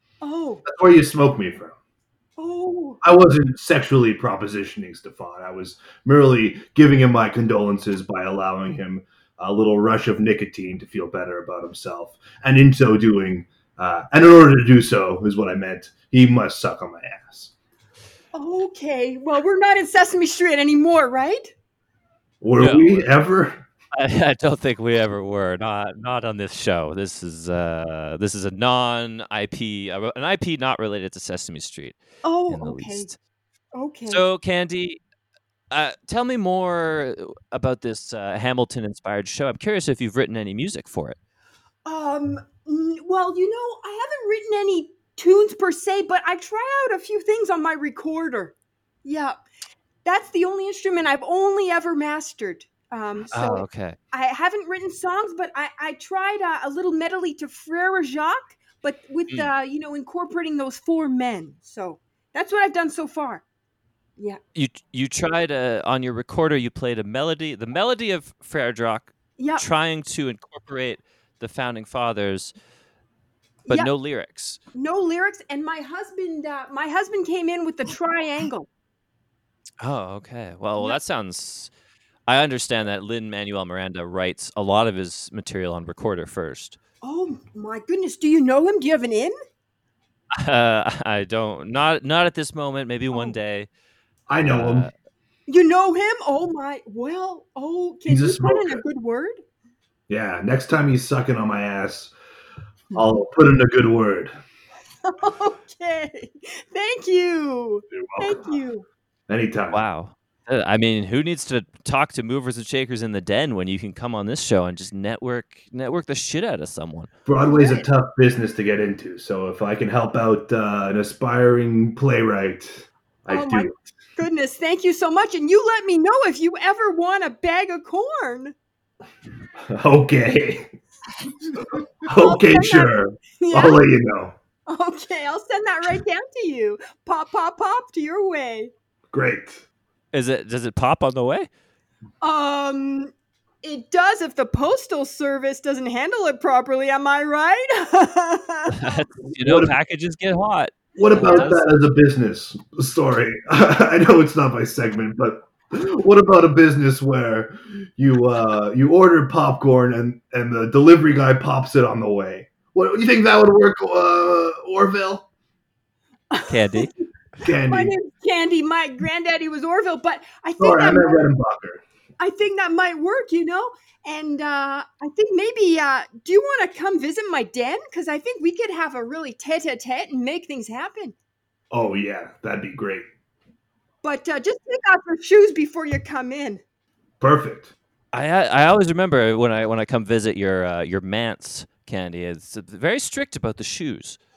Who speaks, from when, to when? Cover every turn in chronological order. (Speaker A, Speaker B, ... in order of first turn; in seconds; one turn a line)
Speaker A: 0.2-0.6
Speaker B: 0.6-1.8
Speaker A: 2.4-3.0
Speaker B: 3.0-17.5
Speaker A: 18.3-21.5
Speaker B: 22.4-23.6
Speaker C: 22.6-23.1
Speaker C: 23.9-32.0
Speaker A: 32.2-33.1
Speaker C: 32.5-33.2
Speaker A: 33.7-34.2
Speaker C: 34.1-35.0
Speaker C: 35.7-41.2
Speaker A: 41.9-48.5
Speaker A: 49.0-49.4
Speaker A: 50.0-63.4
Speaker C: 53.3-54.0
Speaker C: 64.5-72.5
Speaker A: 69.4-69.6
Speaker A: 73.7-73.9
Speaker C: 73.7-74.6
Speaker A: 74.7-78.7
Speaker C: 79.8-81.7
Speaker C: 82.3-86.8
Speaker A: 87.0-89.3
Speaker C: 90.3-93.7
Speaker B: 94.3-94.9
Speaker C: 94.4-94.9
Speaker A: 95.5-99.4
Speaker B: 98.1-98.8
Speaker B: 100.1-102.1
Speaker B: 102.9-104.3
Speaker A: 105.0-108.9
Speaker B: 107.9-108.5
Speaker B: 109.3-109.8
Speaker C: 109.7-117.1
Speaker B: 117.2-123.8
Speaker A: 117.5-117.8
Speaker A: 123.3-128.5
Speaker B: 129.7-130.7
Speaker B: 132.0-134.4
Speaker A: 132.0-133.8
Speaker A: 134.7-138.7
Speaker B: 139.1-139.6
Speaker C: 140.1-141.5
Speaker A: 142.2-143.1
Speaker A: 143.6-149.0
Speaker C: 148.7-151.6
Speaker B: 149.4-149.7
Speaker B: 150.9-165.2
Speaker A: 151.1-151.5
Speaker A: 166.3-171.2
Speaker C: 166.4-166.9
Speaker B: 167.4-167.9
Speaker B: 170.6-171.8
Speaker A: 172.2-181.1
Speaker B: 181.7-183.1
Speaker A: 184.0-186.6
Speaker B: 187.2-187.7
Speaker C: 188.1-194.2